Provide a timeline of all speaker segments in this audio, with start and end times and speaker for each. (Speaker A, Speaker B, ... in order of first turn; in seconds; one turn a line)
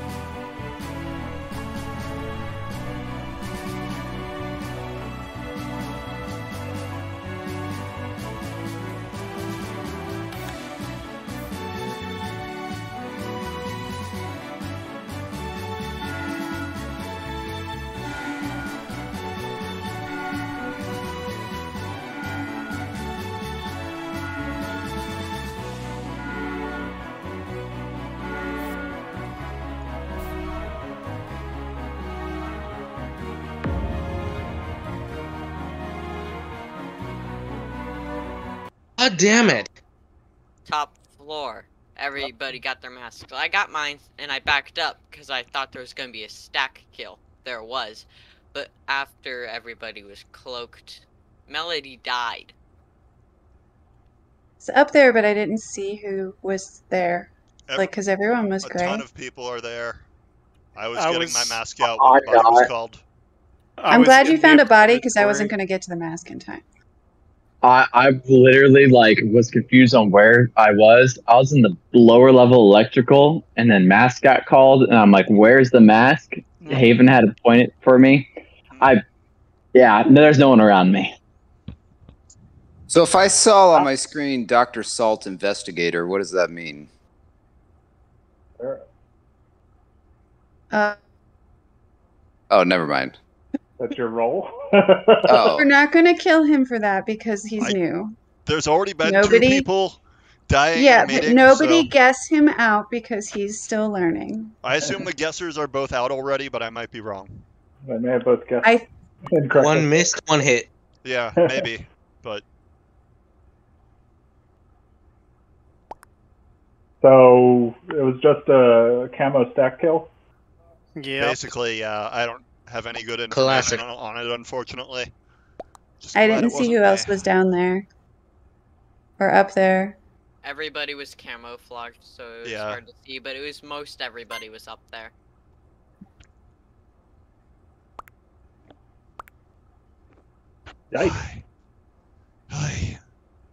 Speaker A: 39.0-39.7
Speaker B: 39.4-39.7
Speaker B: 40.7-52.5
Speaker C: 54.6-59.0
Speaker D: 57.7-58.0
Speaker D: 58.6-60.1
Speaker D: 60.8-63.0
Speaker E: 61.0-61.6
Speaker F: 62.0-62.7
Speaker E: 63.8-65.5
Speaker C: 63.9-66.6
Speaker F: 67.6-79.0
Speaker D: 76.6-77.0
Speaker F: 79.7-81.1
Speaker G: 82.9-86.9
Speaker C: 90.7-91.0
Speaker G: 92.5-93.2
Speaker H: 93.8-95.4
Speaker G: 95.3-95.7
Speaker C: 95.4-98.2
Speaker D: 98.5-101.9
Speaker C: 99.0-99.7
Speaker C: 100.7-104.6
Speaker D: 104.6-107.4
Speaker H: 104.8-105.1
Speaker H: 107.9-108.7
Speaker H: 109.3-110.1
Speaker A: 109.6-110.7
Speaker D: 111.0-112.4
Speaker H: 117.0-120.1
Speaker E: 121.0-121.4
Speaker D: 121.2-125.1
Speaker A: 123.3-123.8
Speaker D: 126.0-127.3
Speaker C: 126.1-127.9
Speaker C: 129.2-130.0
Speaker B: 130.4-135.1
Speaker D: 132.4-132.8
Speaker H: 140.9-141.2
Speaker D: 141.0-141.4
Speaker D: 142.5-143.0